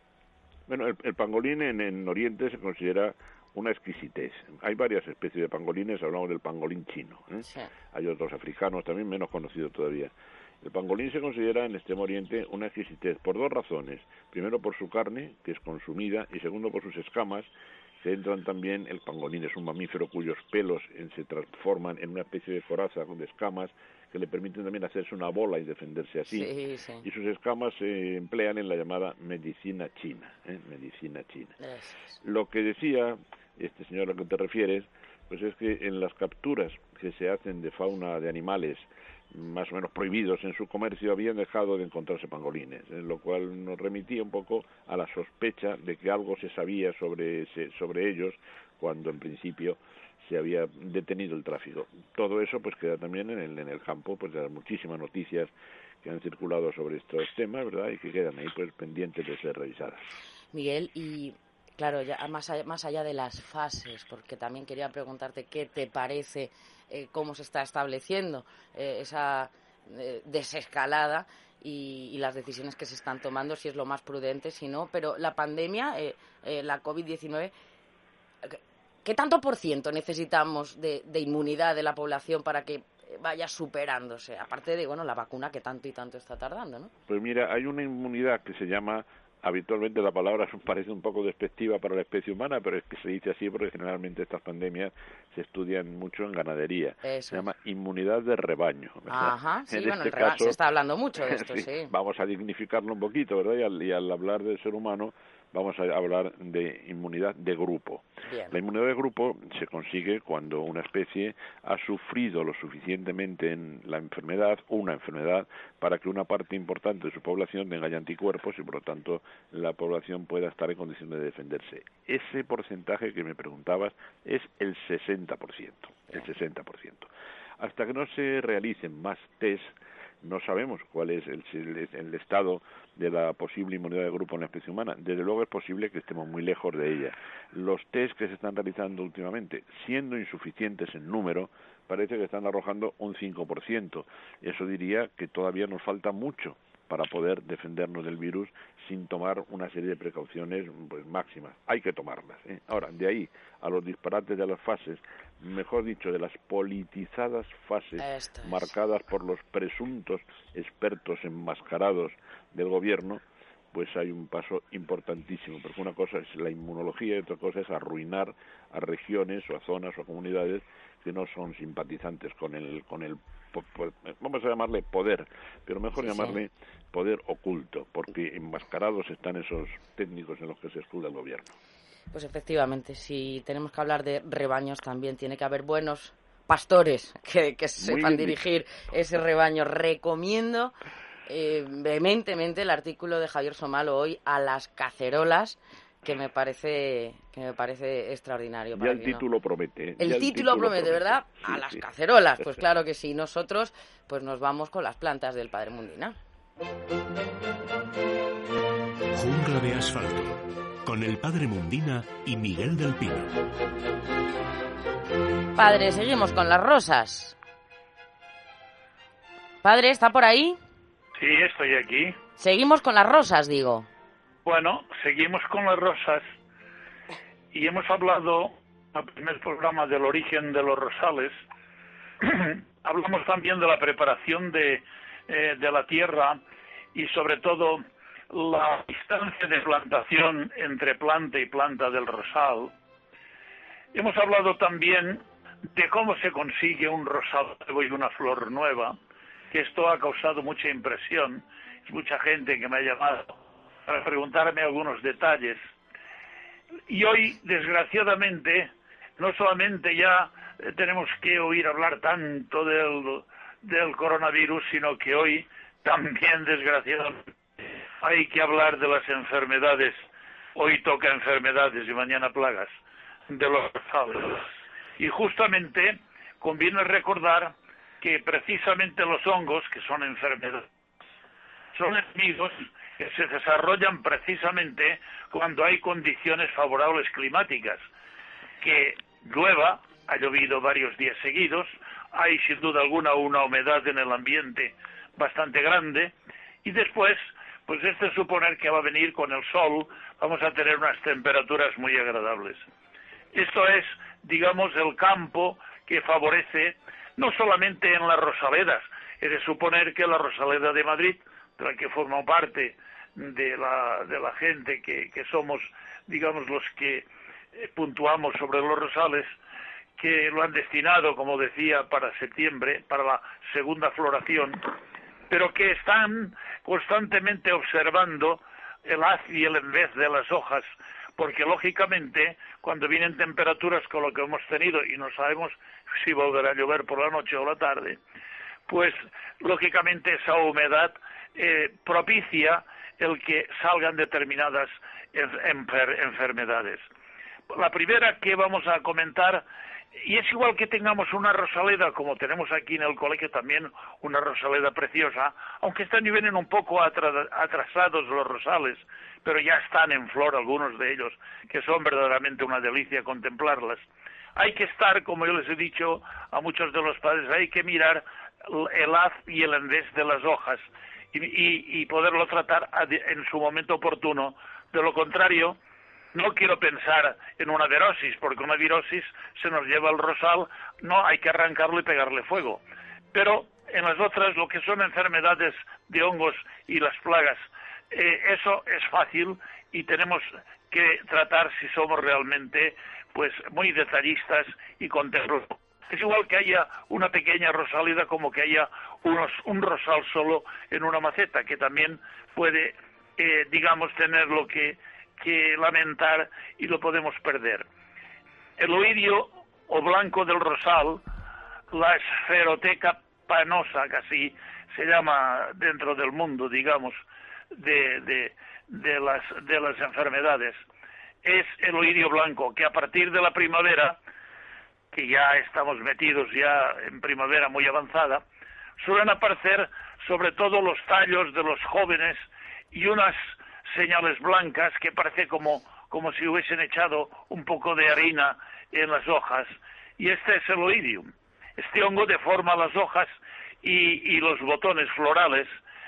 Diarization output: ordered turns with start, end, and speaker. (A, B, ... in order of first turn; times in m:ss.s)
0:00.7-0:17.5 A
0:07.4-0:07.7 B
0:18.0-0:26.5 A
0:26.3-0:27.0 B
0:27.0-0:31.5 A
0:31.6-0:32.2 B
0:32.2-1:00.1 A
1:00.5-1:17.5 B
1:18.4-1:26.9 B
1:27.1-1:40.6 A
1:37.0-1:37.5 B
1:39.1-1:41.9 B
1:41.2-3:01.5 A
1:48.3-1:48.6 B
2:38.0-2:38.7 B
2:56.0-2:56.4 B
3:02.1-3:10.7 B
3:07.8-3:08.4 A
3:11.3-3:19.2 B
3:18.7-3:21.8 A
3:20.0-3:26.2 B
3:22.4-3:22.6 A
3:29.1-3:33.3 C
3:35.5-3:37.4 B
3:39.6-3:40.6 B
3:41.2-3:42.2 D
3:42.4-3:43.9 B
3:44.4-3:46.3 D
3:47.5-3:51.4 D
3:52.2-3:56.4 D
3:56.9-4:02.7 D
4:03.9-4:05.2 D
4:05.7-4:08.9 D
4:09.5-4:13.3 D
4:13.8-4:15.6 D
4:16.9-4:30.0 D
4:30.6-4:32.7 D
4:33.3-4:34.5 D
4:35.0-4:40.6 D
4:41.7-4:47.8 D
4:48.6-4:56.1 D
4:56.6-5:02.6 D
5:03.3-5:17.0 D
5:17.6-5:19.3 D
5:20.0-5:24.6 D
5:25.3-5:38.0 D
5:38.7-5:46.8 D
5:47.5-5:49.4 D
5:50.0-6:03.8 D
6:04.4-6:15.6 D
6:16.1-6:22.6 D
6:23.1-6:47.6 D
6:48.6-6:51.0 D
6:51.7-6:57.0 D
6:57.5-7:00.6 D
7:01.2-7:04.0 D
7:04.9-7:08.2 D
7:08.8-7:23.1 D
7:23.6-7:25.5 D